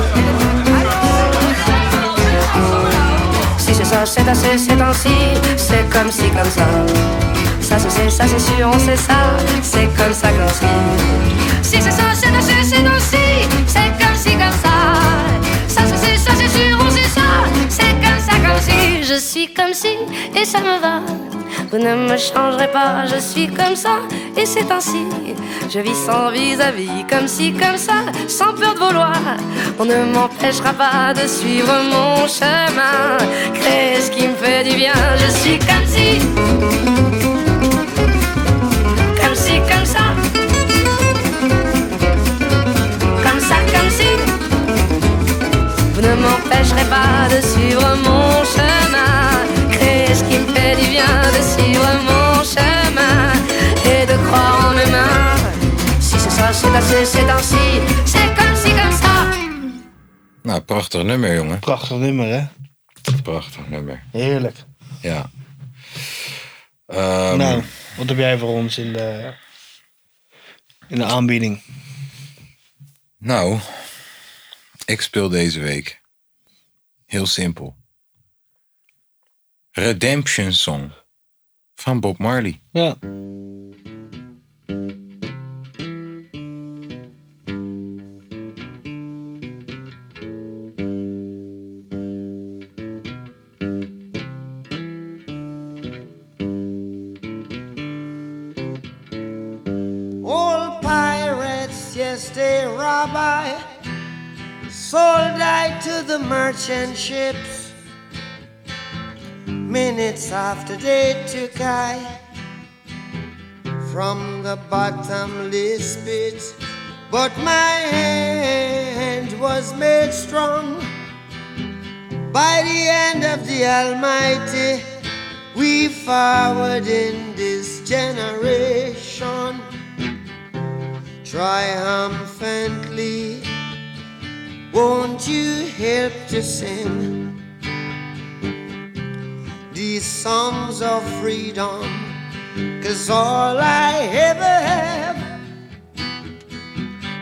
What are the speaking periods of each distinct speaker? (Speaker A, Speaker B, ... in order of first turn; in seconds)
Speaker A: 0.8-7.0, 7.6-36.3, 39.1-40.2, 43.2-44.4, 45.9-59.4
Speaker B: 60.4-61.6, 63.2-64.0, 65.0-65.3, 66.9-67.7, 73.2-73.8, 74.9-76.0, 77.1-77.8, 79.7-80.9, 81.8-82.6
Speaker C: 61.6-62.5, 64.1-64.6, 67.3-69.4, 70.9-71.6
Speaker D: 100.2-103.6, 104.7-107.7, 109.7-112.1, 113.8-116.5, 117.1-120.9, 122.3-124.8, 125.5-129.6, 131.2-133.5, 134.7-137.3, 139.7-142.2, 142.8-145.2